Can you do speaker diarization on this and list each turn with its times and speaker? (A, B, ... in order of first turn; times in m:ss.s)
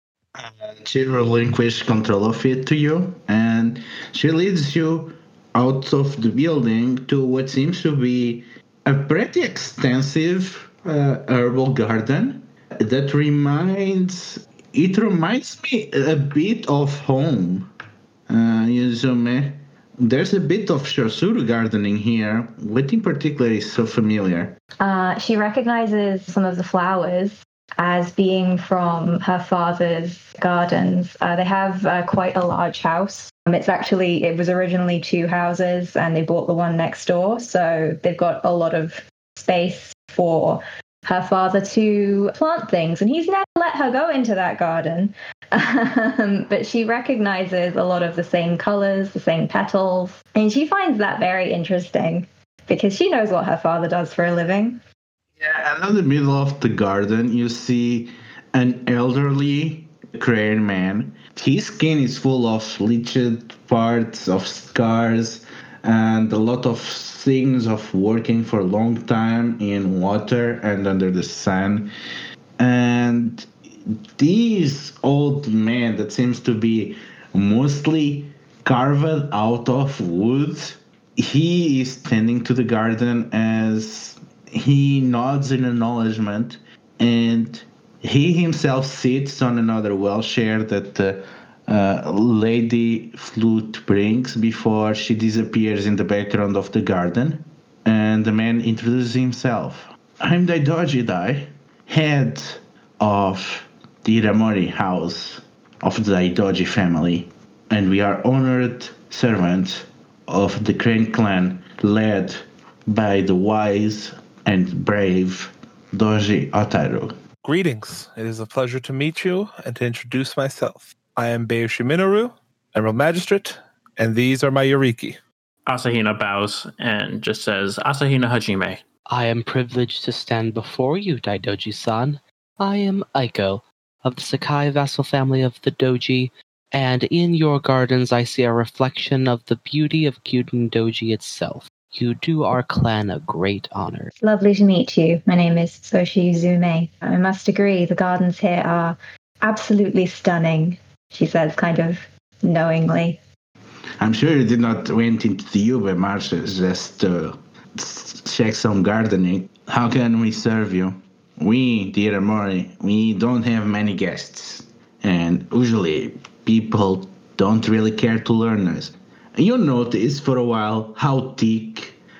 0:00.4-0:17.7 A
0:18.3-0:24.5 A
0:24.8-0:54.8 B
0:55.4-1:11.9 A
1:12.6-1:13.5 A
1:14.2-1:57.2 A
1:57.4-2:05.2 C
2:05.7-2:08.8 D
2:09.1-2:24.1 E
2:24.2-2:33.2 B
2:34.0-2:52.0 A